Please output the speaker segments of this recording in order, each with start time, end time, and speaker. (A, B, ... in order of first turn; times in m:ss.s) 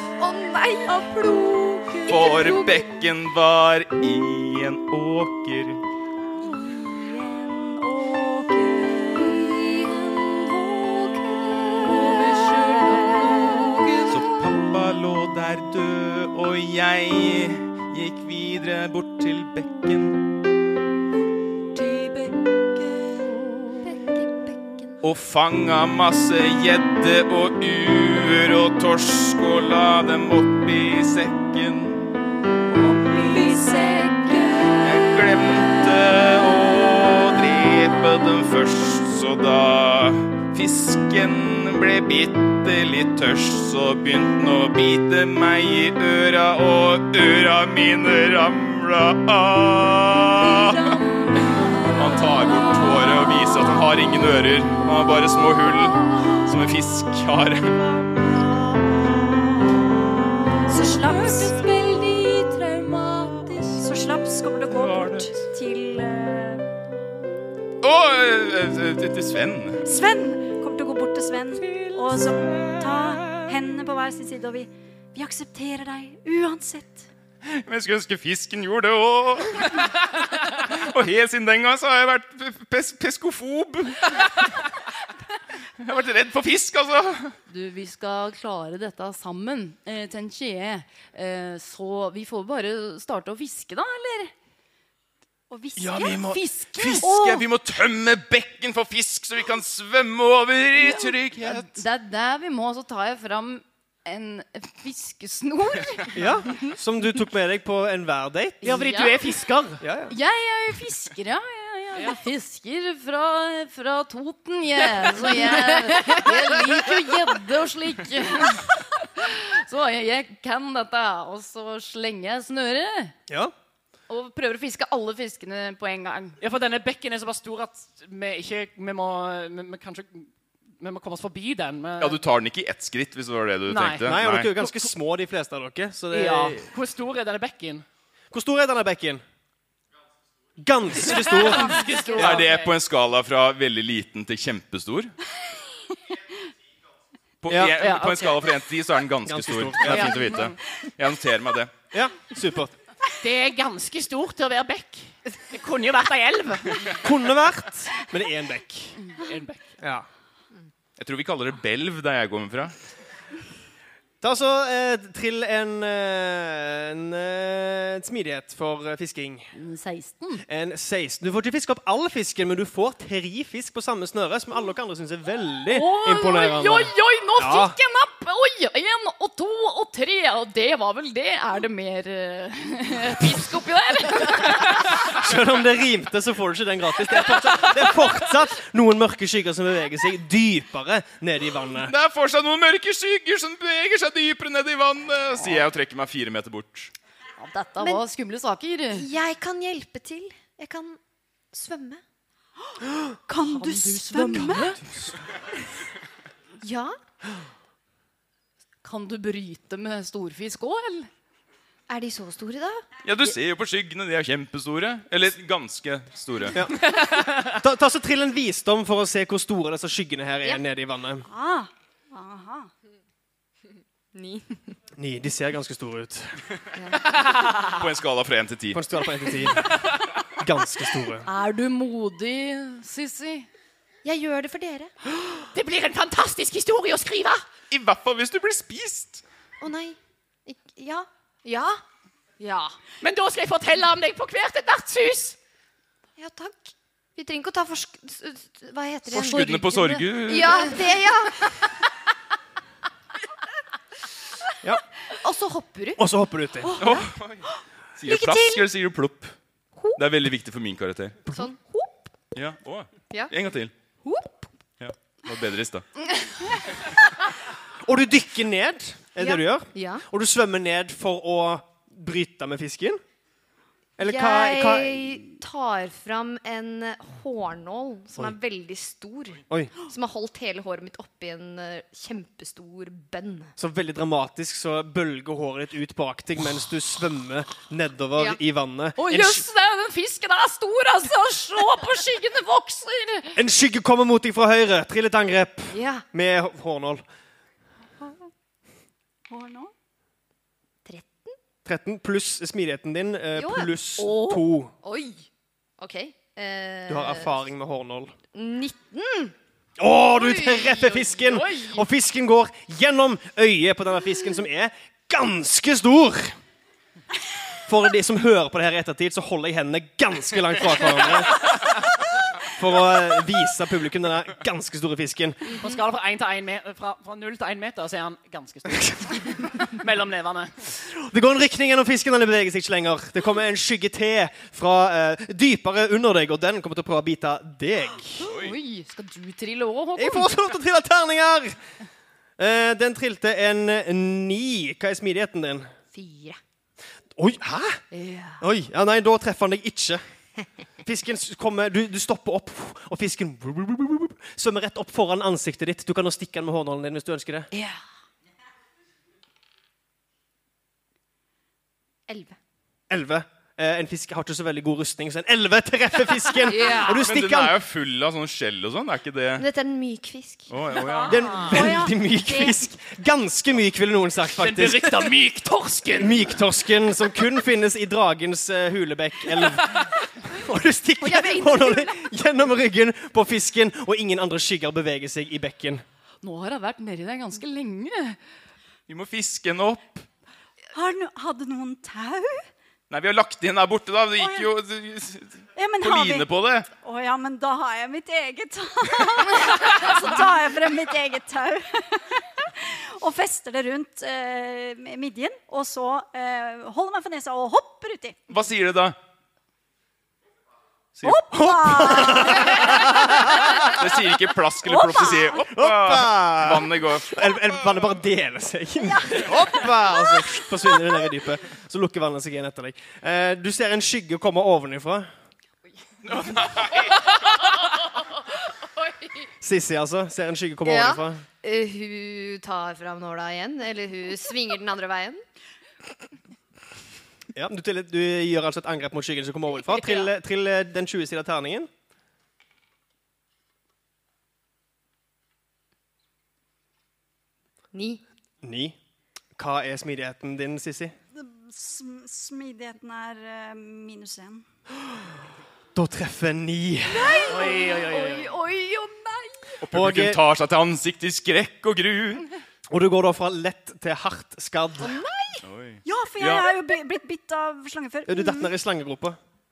0:00.2-0:01.1 A
0:00.2-0:02.8 B
0:02.0-0:02.6 A
0:02.1-0:05.8 C
0:06.4-0:10.0 A
0:10.8-0:11.1 A
0:11.6-0:13.8 A
0:11.9-0:14.1 D
0:14.1-0:20.2 C
0:21.8-0:22.3 D
0:23.8-0:25.0 B
0:25.0-0:32.0 C
0:32.7-0:34.8 A
0:33.4-0:34.0 B
0:34.8-0:51.0 C
0:51.9-0:57.9 C
1:00.7-1:01.6 A
1:00.7-1:03.8 D
1:03.8-1:06.8 A
1:04.7-1:05.4 C
1:07.8-1:09.8 C
1:09.8-1:17.1 A
1:11.7-1:13.5 C
1:17.4-1:24.6 C
1:25.8-1:27.3 C
1:27.5-1:34.3 D
1:35.5-1:36.4 A
1:35.8-1:41.8 C
1:36.2-1:37.4 D
1:40.8-1:46.2 D
1:46.1-1:48.7 E
1:48.6-1:49.2 D
1:48.6-1:49.8 F
1:49.8-1:50.1 E
1:50.1-2:03.2 D
1:55.2-1:56.2 F
2:03.3-2:03.5 E
2:04.1-2:06.4 D
2:06.4-2:12.2 F
2:12.0-2:14.5 C
2:13.7-2:14.1 F
2:14.1-2:16.6 E
2:16.1-2:17.8 F
2:18.3-2:19.2 E
2:20.6-2:22.4 E
2:21.0-2:22.7 F
2:21.5-2:22.3 D
2:22.2-2:25.1 C
2:27.4-2:31.8 C
2:27.5-2:27.8 E
2:27.8-2:28.5 F
2:29.3-2:30.2 E
2:29.8-2:30.5 F
2:31.9-2:32.7 E
2:33.2-2:37.0 F
2:37.0-2:39.0 E
2:39.1-2:39.7 F
2:39.8-2:40.1 E
2:41.0-2:42.7 C
2:44.2-2:49.5 E
2:49.5-2:50.4 D
2:50.5-2:57.8 E
2:55.7-3:05.0 D
3:05.0-3:11.9 E
3:11.8-3:16.9 C
3:17.4-3:19.1 D
3:18.9-3:21.0 B
3:21.5-3:22.0 B
3:23.3-3:24.8 A
3:23.4-3:24.8 D
3:26.6-3:27.0 B
3:28.8-3:31.1 D
3:31.9-3:32.8 B
3:33.0-3:36.6 C
3:36.5-3:41.3 E
3:36.9-3:37.5 F
3:41.2-3:42.7 A
3:44.1-3:44.7 B
3:45.0-3:46.4 E
3:46.8-3:47.2 B
3:47.2-3:47.6 F
3:47.7-3:48.8 C
3:48.7-3:49.8 E
3:50.3-3:51.3 E
3:51.2-3:53.5 D
3:54.0-3:54.9 B
3:55.5-3:57.4 F
3:57.7-3:59.2 C
3:59.6-4:01.8 B
4:02.4-4:02.7 D
4:03.0-4:05.4 F
4:06.2-4:11.7 B
4:09.1-4:10.8 C
4:09.4-4:10.1 D
4:15.2-4:16.1 B
4:16.0-4:16.8 E
4:16.6-4:17.1 B
4:16.8-4:19.3 C
4:18.1-4:18.6 B
4:20.0-4:21.2 C
4:21.3-4:22.0 B
4:22.3-4:23.7 C
4:24.0-4:24.5 B
4:24.8-4:25.8 C
4:27.8-4:33.0 E
4:29.2-4:30.0 B
4:34.0-4:35.2 E
4:34.0-4:43.5 B
4:43.6-4:49.4 E
4:49.0-4:53.4 D
4:53.4-4:57.0 E
4:55.7-4:56.0 B
4:59.3-4:59.7 A
5:00.8-5:01.4 B
5:01.6-5:04.7 E
5:03.4-5:05.3 B
5:05.8-5:07.4 B
5:06.9-5:08.2 E
5:08.3-5:09.3 B
5:09.8-5:16.4 E
5:10.2-5:11.8 D
5:17.7-5:21.7 E
5:22.5-5:25.5 E
5:25.6-5:30.5 F
5:30.9-5:38.3 E
5:38.2-5:38.6 C
5:38.2-5:40.3 D
5:40.0-5:41.6 E
5:42.4-5:45.7 E
5:45.9-5:46.4 B
5:47.2-5:47.8 E
5:47.9-5:48.4 B
5:48.4-5:50.0 E
5:50.8-5:57.5 E
5:57.5-5:57.8 B
6:02.1-6:02.4 B
6:02.9-6:07.6 E
6:06.4-6:07.0 B
6:06.9-6:09.5 C
6:09.4-6:10.5 B
6:10.5-6:11.4 C
6:10.8-6:11.6 F
6:11.1-6:15.2 E
6:11.4-6:11.7 B
6:11.5-6:12.6 A
6:14.4-6:16.4 F
6:16.0-6:25.8 E
6:21.0-6:21.8 B
6:26.2-6:28.2 D
6:28.9-6:30.0 C
6:30.7-6:32.5 A
6:32.9-6:36.7 C
6:34.2-6:34.5 A
6:35.6-6:48.2 A
6:48.3-6:49.0 C
6:51.0-6:53.7 E
6:51.0-6:53.6 A
6:53.7-6:57.9 C
6:54.6-6:55.5 A
6:55.5-7:05.1 E
6:59.3-6:59.7 C
7:06.0-7:07.1 C
7:08.8-7:09.3 D
7:09.4-7:11.2 E
7:10.6-7:15.2 B
7:17.3-7:21.7 E
7:19.6-7:20.1 B
7:27.7-7:28.0 B
7:28.4-7:28.8 E
7:29.4-7:31.0 E
7:31.2-7:34.4 A
7:35.8-7:37.3 E
7:37.0-7:38.1 B
7:37.3-7:38.4 F
7:37.3-7:39.2 D
7:39.6-7:42.2 C
7:39.7-7:40.2 E
7:42.7-7:45.0 E
7:44.8-7:45.4 B
7:45.4-7:46.5 C
7:45.8-7:48.5 A
7:48.1-7:49.2 E